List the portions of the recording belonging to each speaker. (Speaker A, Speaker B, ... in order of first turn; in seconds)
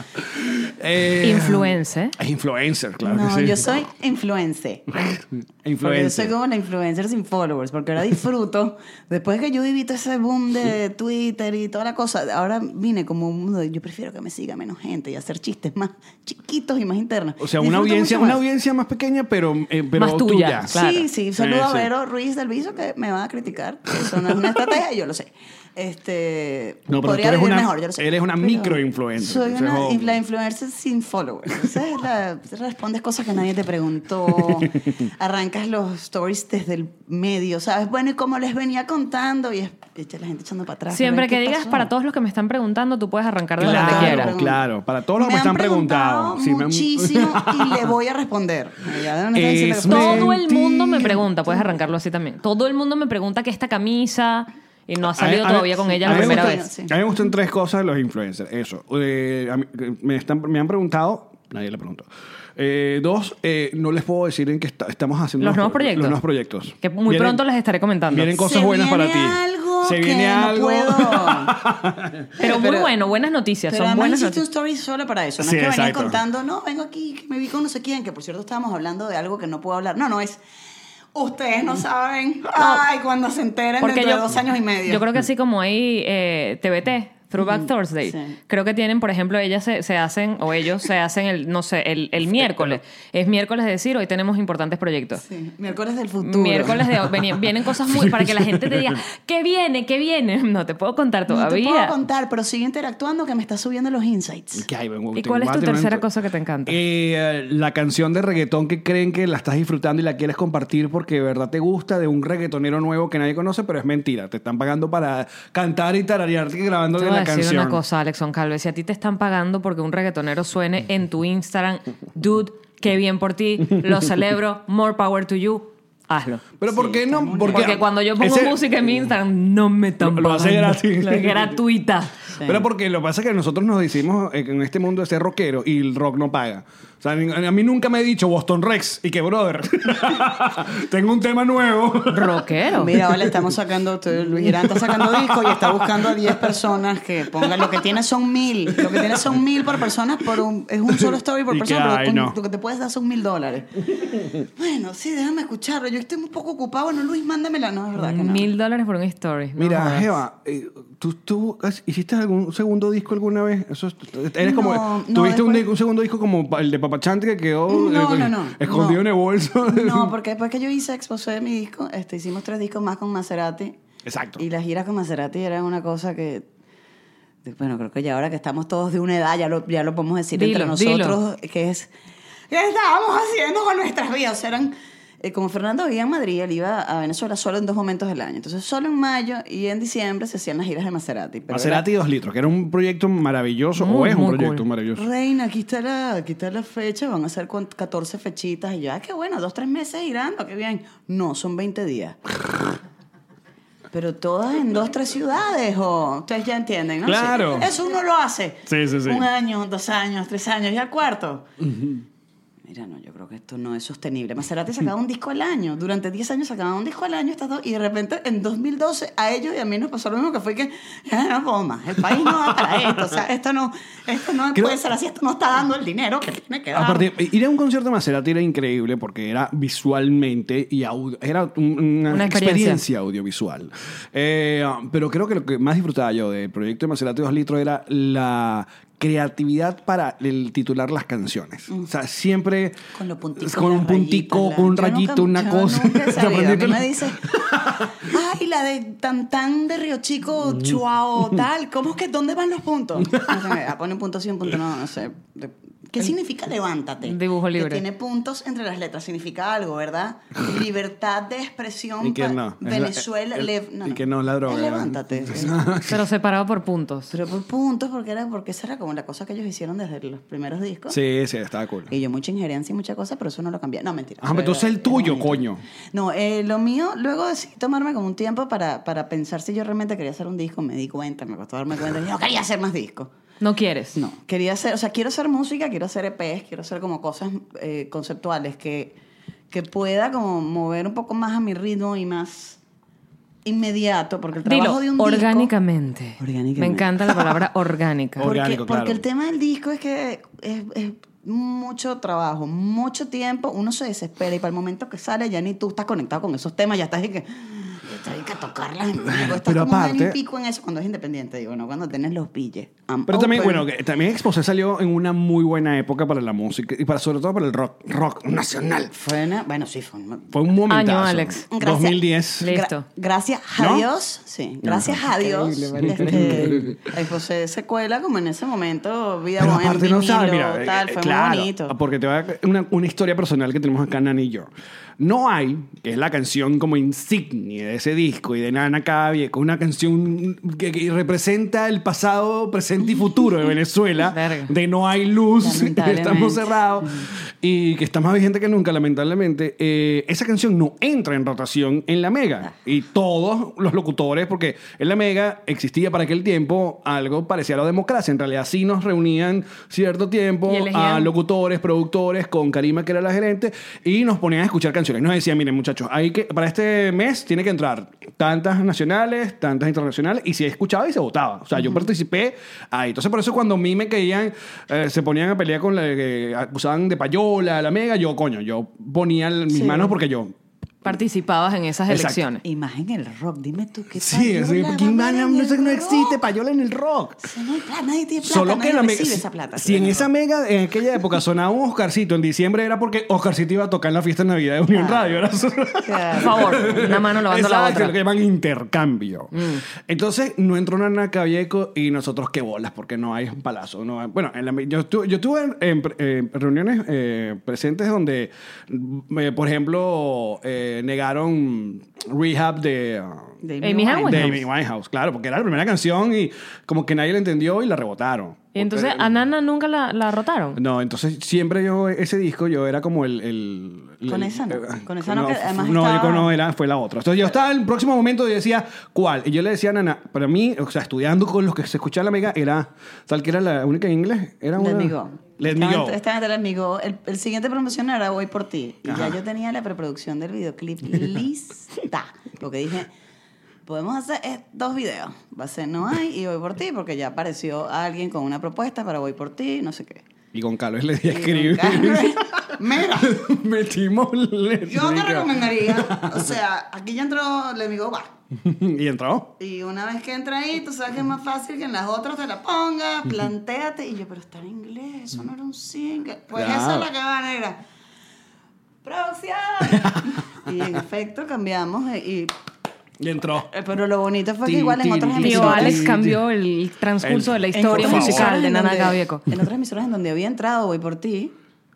Speaker A: 0.2-3.8, 5.0-6.3, 17.4-20.8, 21.4-21.9, 26.9-30.2, 34.3-35.0, 43.6-47.9, 49.3-51.2, 55.1-67.4, 68.1-72.3, 75.4-76.2, 92.4-92.7, 97.8-99.0, 104.6-106.0, 106.7-117.8, 126.6-128.7, 130.0-131.6, 132.4-142.5, 143.0-143.6, 144.4-146.6, 147.3-148.0, 148.7-149.4, 150.9-152.4, 159.6-170.1, 174.1-174.4, 191.5-195.1, 207.1-207.7, 208.7-209.3, 211.6-212.1, 222.2-223.1, 226.8-242.8, 243.4-248.1, 253.1-253.4, 262.0-266.1, 270.9-271.9, 274.2-275.6, 298.2-299.0, 309.1-310.2, 313.1-318.9, 320.3-322.5, 323.6-323.9, 324.6-326.8, 329.4-380.3, 381.9-382.2, 384.0-387.3, 388.2-413.3, 414.0-419.1, 420.6-436.0, 438.9-439.2, 450.3-456.4, 458.4-459.3, 466.4-466.9, 469.7-470.1, 473.0-473.5, 474.4-476.2, 477.0-478.4
Speaker B: 1.2-2.2, 20.0-21.1, 40.9-44.3, 49.9-56.7, 65.4-66.2, 66.8-68.3, 72.4-74.4, 82.5-82.8, 83.8-84.3, 84.9-95.2, 96.2-102.0, 105.1-106.8, 117.0-126.4, 127.5-132.2, 142.1-142.9, 158.0-160.2, 180.3-181.2, 193.8-194.7, 232.1-232.8, 257.0-257.9, 265.8-267.1, 283.4-284.0, 294.4-298.3, 320.7-321.5, 322.4-322.9, 344.1-344.5, 360.5-361.1, 380.8-382.4, 396.2-398.0, 399.3-399.6, 413.6-414.4, 418.5-420.6, 475.2-479.2
Speaker C: 3.0-5.0, 5.8-18.4, 20.7-41.9, 43.6-44.6, 45.2-50.4, 56.0-57.0, 68.3-71.6, 72.4-73.0, 73.7-80.4, 81.1-85.0, 87.4-88.3, 95.2-96.9, 101.3-104.7, 126.7-127.8, 132.4-132.7, 142.8-158.5, 164.4-165.7, 167.7-169.0, 169.6-173.8, 174.4-176.5, 177.4-181.9, 182.5-191.8, 195.0-202.4, 203.9-211.4, 212.7-227.1, 242.9-247.4, 247.9-265.7, 267.1-271.0, 271.9-283.1, 283.9-289.0, 289.5-292.6, 293.4-295.5, 296.2-297.2, 298.2-313.7, 318.9-320.3, 321.5-331.8, 345.4-347.1, 379.5-379.9, 382.4-386.2, 387.2-390.1, 394.7-395.1, 395.8-396.9, 413.4-414.4, 424.1-426.3, 434.6-442.9, 443.7-450.0, 451.1-453.3, 454.7-458.1, 459.4-467.6, 468.8-472.3, 473.5-475.9, 477.5-481.3